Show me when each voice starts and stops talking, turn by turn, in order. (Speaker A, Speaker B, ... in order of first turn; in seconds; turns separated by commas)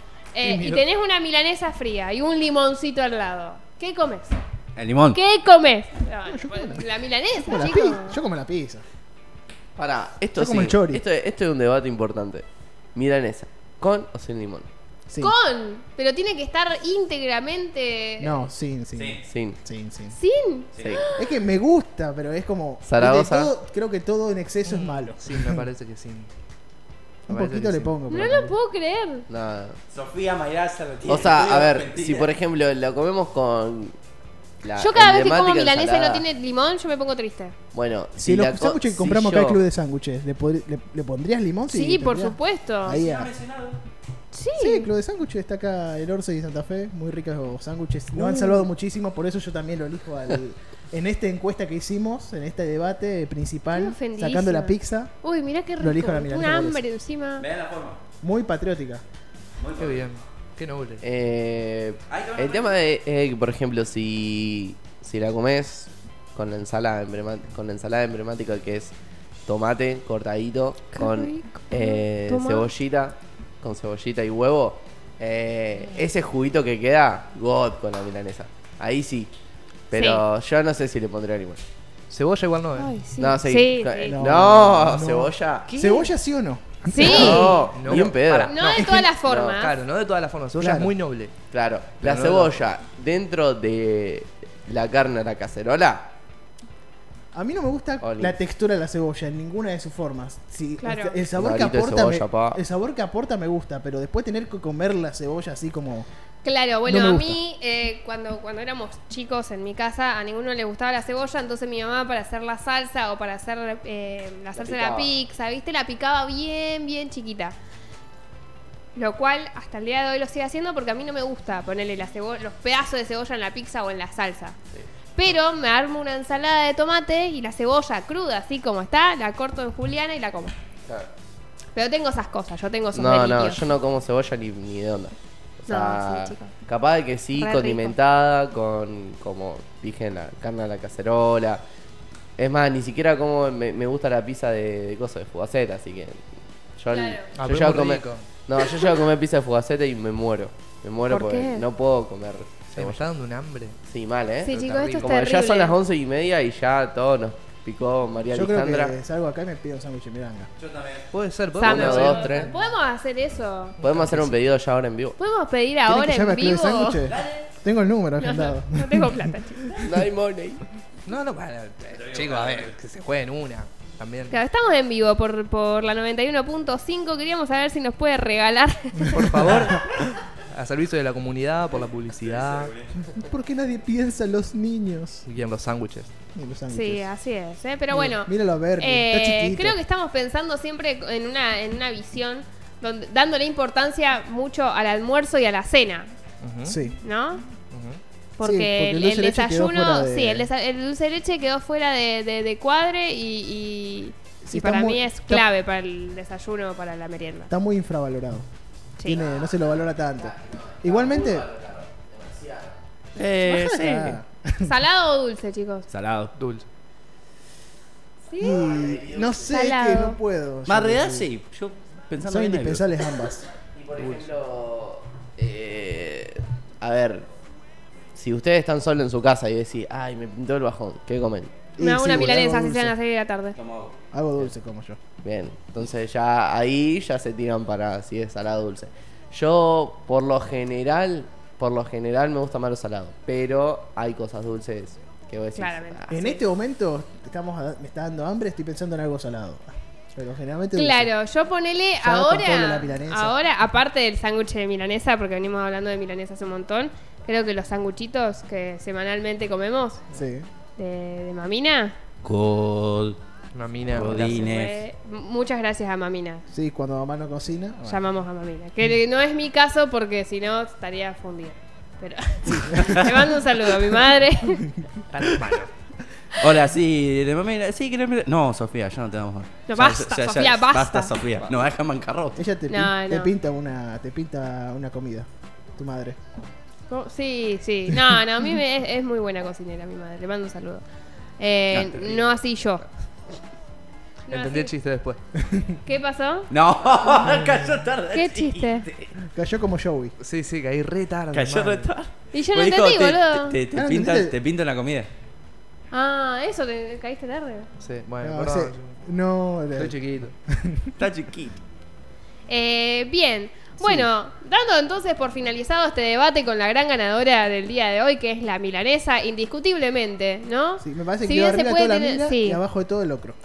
Speaker A: 0.3-4.4, Speaker B: 0.4-0.8, Speaker C: 4.8-5.2, Speaker A: 5.1-8.2, Speaker B: 6.2-8.8, Speaker D: 9.8-14.7, Speaker B: 10.3-11.0, Speaker B: 15.1-15.3, Speaker A: 15.2-18.4, Speaker B: 18.2-20.2, Speaker C: 18.9-19.2, Speaker D: 19.2-19.6, Speaker A: 20.1-21.4, Speaker C: 20.7-21.0, Speaker D: 20.8-21.0, Speaker B: 21.1-25.7, Speaker D: 22.8-23.5, Speaker E: 24.6-26.3, Speaker B: 27.3-28.5, Speaker E: 27.3-27.9, Speaker A: 28.1-29.2, Speaker D: 29.3-29.8, Speaker C: 29.9-32.3, Speaker D: 31.1-33.9, Speaker D: 34.6-36.2, Speaker A: 34.8-37.5, Speaker D: 37.7-39.6, Speaker B: 38.2-43.3, Speaker A: 41.7-43.0, Speaker C: 42.9-43.8, Speaker A: 44.3-44.9, Speaker B: 44.6-55.1, Speaker A: 53.7-57.5, Speaker B: 55.8-56.8, Speaker C: 57.4-58.0, Speaker B: 58.2-59.0, Speaker C: 59.6-60.1, Speaker E: 59.8-61.0, Speaker D: 61.0-68.9, Speaker C: 62.1-62.8, Speaker D: 69.5-79.3, Speaker A: 70.9-72.7, Speaker D: 79.9-81.6, Speaker A: 79.9-80.2, Speaker E: 82.1-82.9, Speaker A: 82.8-84.3, Speaker D: 83.2-85.7, Speaker B: 84.1-88.2, Speaker E: 85.7-86.0, Speaker A: 86.8-87.7, Speaker D: 87.0-89.6, Speaker E: 87.7-91.3, Speaker A: 88.3-89.8, Speaker B: 88.7-89.1, Speaker B: 90.6-90.9, Speaker D: 91.5-96.1, Speaker E: 92.0-92.6, Speaker B: 97.3-106.1, Speaker D: 98.0-98.4, Speaker A: 100.8-101.2, Speaker D: 101.3-102.6, Speaker A: 106.4-117.5, Speaker B: 106.8-107.4, Speaker D: 114.5-115.1, Speaker A: 118.9-124.5, Speaker A: 125.2-130.5, Speaker A: 131.7-133.7, Speaker D: 132.9-141.6, Speaker A: 135.7-136.5, Speaker A: 137.3-137.9, Speaker D: 142.4-146.2, Speaker D: 146.8-153.0, Speaker A: 146.9-147.3, Speaker E: 147.3-148.3, Speaker A: 151.0-151.7, Speaker E: 152.7-153.8, Speaker D: 153.9-159.0, Speaker A: 154.4-155.8, Speaker E: 154.5-155.2, Speaker B: 158.3-160.5, Speaker C: 160.6-161.1, Speaker E: 161.1-162.5, Speaker A: 161.6-163.8, Speaker D: 161.6-162.5, Speaker E: 163.8-164.5, Speaker D: 163.8-165.2, Speaker A: 165.2-167.0, Speaker B: 165.8-169.9, Speaker C: 167.1-167.5, Speaker A: 168.2-169.8, Speaker D: 169.8-170.6, Speaker E: 171.1-174.4, Speaker C: 171.9-172.7, Speaker A: 174.3-179.7, Speaker E: 179.1-179.9, Speaker B: 179.1-179.8, Speaker E: 180.5-182.7, Speaker C: 181.7-182.9, Speaker B: 183.1-185.2, Speaker E: 185.2-186.1, Speaker B: 186.3-187.1, Speaker A: 186.7-196.1, Speaker B: 187.9-189.8, Speaker E: 196.4-196.8, Speaker B: 196.6-197.0, Speaker A: 197.0-197.4, Speaker E: 197.7-198.0, Speaker A: 198.4-207.5, Speaker B: 198.4-200.5, Speaker B: 204.4-205.4, Speaker B: 207.5-208.4, Speaker B: 209.0-211.5, Speaker D: 209.1-212.8, Speaker C: 213.2-214.1, Speaker B: 213.4-214.7, Speaker A: 214.6-215.9, Speaker C: 215.9-216.3, Speaker E: 216.3-216.7, Speaker A: 218.3-218.7, Speaker B: 218.4-221.3, Speaker D: 218.4-219.6, Speaker A: 219.5-220.2, Speaker C: 220.7-222.8, Speaker B: 222.2-223.5, Speaker D: 223.7-227.3, Speaker E: 223.9-224.3, Speaker D: 228.2-231.5, Speaker B: 231.8-232.9, Speaker A: 231.8-233.6, Speaker C: 233.5-233.9, Speaker B: 234.1-235.0, Speaker D: 235.2-246.1, Speaker A: 245.6-246.4, Speaker B: 246.1-251.1, Speaker A: 250.7-260.0, Speaker B: 252.0-253.3, Speaker B: 260.1-260.5, Speaker A: 260.8-261.9, Speaker C: 262.2-263.2, Speaker E: 263.5-264.4, Speaker C: 263.9-264.8, Speaker A: 264.0-266.4, Speaker B: 266.5-268.0, Speaker A: 267.8-274.7, Speaker C: 272.7-273.1, Speaker E: 275.1-275.7, Speaker C: 276.4-282.4, Speaker A: 279.7-281.1, Speaker B: 282.4-286.2, Speaker A: 282.7-283.3, Speaker A: 286.9-290.8, Speaker B: 287.9-288.2, Speaker A: 291.4-292.9, Speaker C: 291.7-292.3, Speaker A: 294.3-294.7, Speaker E: 294.3-295.2, Speaker B: 295.4-295.7, Speaker A: 295.8-296.5, Speaker C: 296.5-299.1, Speaker A: 298.1-298.9, Speaker B: 299.2-300.1, Speaker E: 300.2-301.9, Speaker C: 301.3-305.1, Speaker A: 302.3-303.6, Speaker B: 303.7-304.3, Speaker A: 305.9-307.7, Speaker E: 307.8-308.9, Speaker B: 308.2-310.9, Speaker E: 309.8-310.3, Speaker C: 311.0-311.6, Speaker A: 312.5-322.6, Speaker B: 313.8-314.1, Speaker B: 320.8-323.4